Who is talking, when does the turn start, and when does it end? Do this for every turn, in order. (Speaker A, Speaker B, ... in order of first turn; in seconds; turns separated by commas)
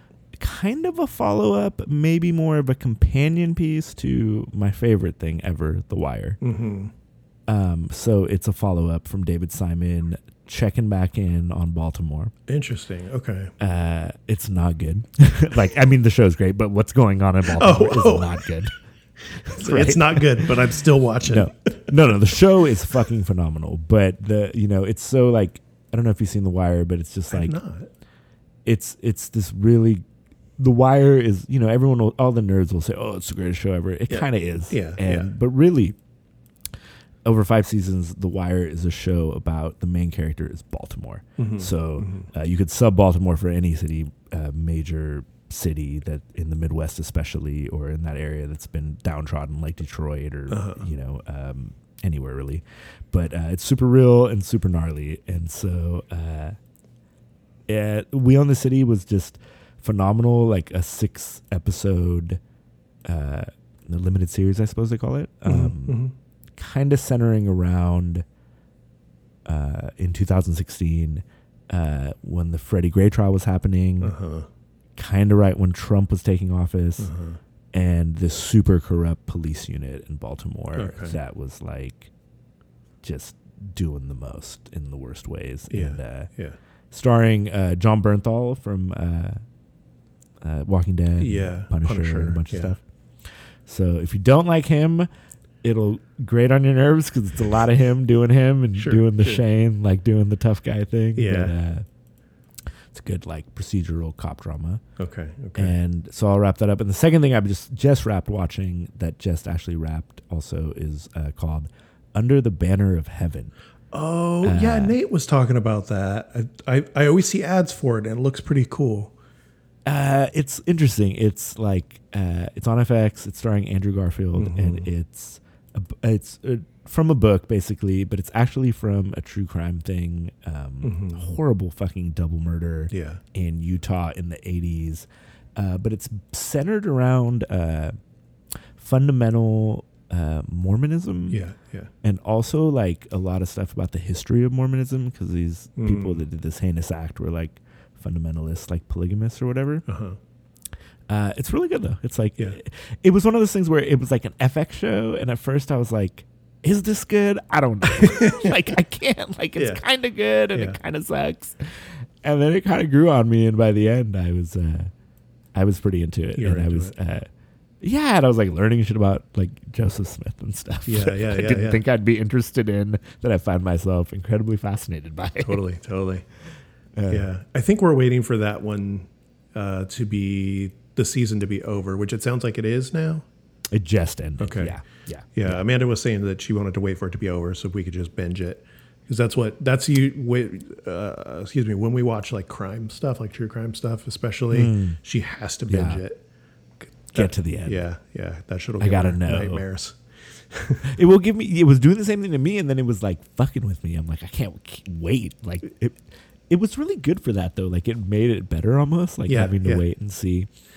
Speaker A: 0.4-6.4, Speaker B: 6.4-6.9, Speaker A: 7.5-12.3, Speaker B: 12.5-13.5, Speaker A: 13.6-18.8, Speaker B: 17.6-18.5, Speaker A: 19.4-27.6, Speaker B: 19.5-21.9, Speaker B: 27.3-27.9, Speaker A: 28.6-30.0, Speaker A: 30.6-36.0, Speaker B: 34.1-35.3, Speaker A: 37.2-56.6, Speaker B: 41.4-42.3, Speaker B: 50.5-50.9, Speaker A: 57.7-62.4, Speaker A: 63.0-66.0, Speaker B: 65.5-66.1, Speaker A: 66.6-68.3, Speaker A: 69.5-74.2, Speaker B: 74.0-74.5, Speaker A: 75.0-77.1, Speaker B: 77.0-77.4, Speaker A: 77.7-82.1, Speaker B: 80.8-81.2, Speaker A: 83.0-86.3, Speaker B: 85.7-86.6, Speaker A: 86.9-89.4, Speaker A: 90.4-95.1, Speaker B: 91.2-92.8, Speaker A: 95.6-101.9, Speaker B: 98.8-99.4, Speaker B: 101.2-101.5, Speaker A: 102.9-104.8, Speaker B: 105.0-105.8, Speaker A: 105.5-113.5, Speaker B: 113.9-119.1, Speaker A: 114.4-115.0, Speaker A: 119.9-138.0, Speaker B: 124.3-124.9, Speaker B: 130.8-131.3, Speaker B: 132.9-133.2, Speaker A: 138.8-141.4, Speaker B: 141.3-141.9, Speaker A: 142.0-149.8, Speaker B: 145.8-146.2, Speaker B: 149.9-150.2, Speaker A: 151.1-164.9, Speaker B: 157.9-158.6, Speaker B: 159.6-159.8, Speaker B: 160.5-160.8, Speaker A: 165.6-167.3, Speaker B: 166.4-166.9, Speaker A: 167.8-175.6, Speaker B: 170.9-171.8, Speaker B: 175.4-176.2, Speaker A: 177.0-177.3, Speaker B: 177.1-183.3, Speaker A: 183.7-185.6, Speaker B: 184.4-184.8, Speaker B: 185.4-196.2, Speaker A: 194.5-195.0, Speaker A: 195.7-196.0, Speaker B: 196.8-200.8, Speaker A: 197.1-197.8, Speaker A: 198.8-199.6, Speaker A: 200.8-210.5, Speaker B: 209.3-209.8